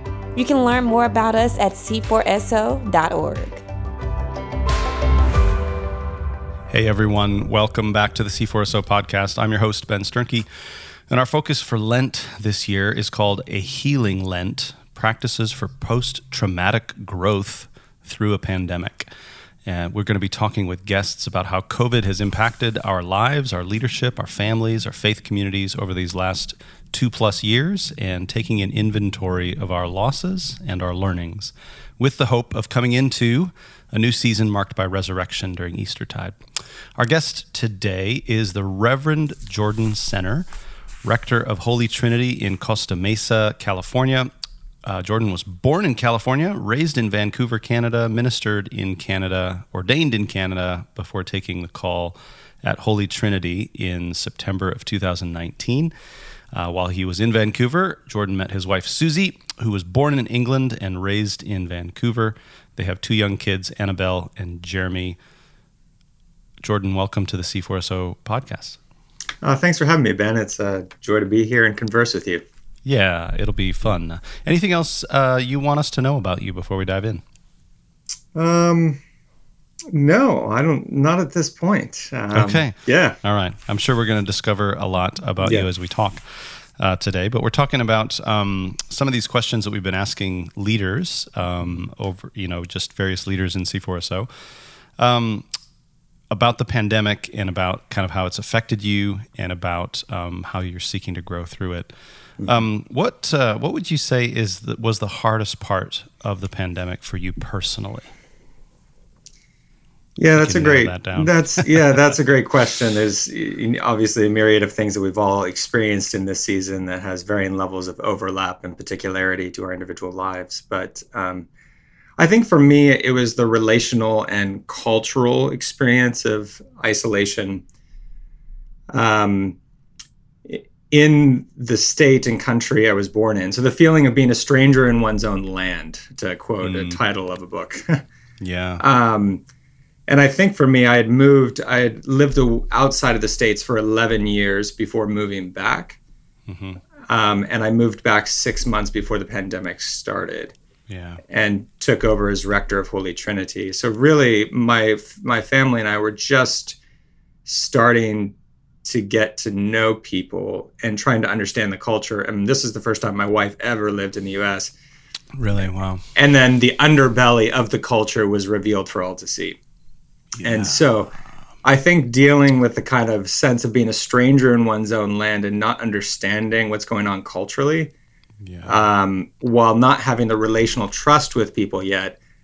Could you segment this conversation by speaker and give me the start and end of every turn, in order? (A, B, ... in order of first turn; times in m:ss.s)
0:00.3-0:03.6 A
0:06.7-0:19.1 B
0:19.6-0:36.4 B
0:37.0-0:40.5 B
0:41.0-0:44.3 B
0:44.8-0:55.9 B
0:56.5-1:05.2 B
1:06.6-1:08.8 B
1:09.4-1:12.4 C
1:12.8-1:17.2 B
1:18.3-1:19.0 C
1:19.9-1:23.2 C
1:22.3-1:35.5 B
1:25.4-1:25.7 C
1:36.3-1:41.9 B
1:42.4-1:48.1 B
1:50.2-2:01.5 C
1:50.3-1:52.1 B
2:02.2-2:07.6 C
2:08.9-2:09.6 C
2:10.4-2:18.0 C
2:16.6-2:17.0 B
2:18.4-2:18.8 B
2:18.8-2:19.4 C
2:20.1-2:26.0 C
2:26.5-2:26.8 B
2:27.1-2:30.6 C
2:30.9-2:31.2 B
2:31.3-2:36.8 C
2:37.4-2:44.7 C
2:45.3-2:46.0 B
2:46.2-2:49.6 C
2:50.3-2:51.3 B
2:50.4-2:51.1 C
2:51.6-2:57.9 C
2:58.4-2:58.8 B
2:58.6-3:02.2 C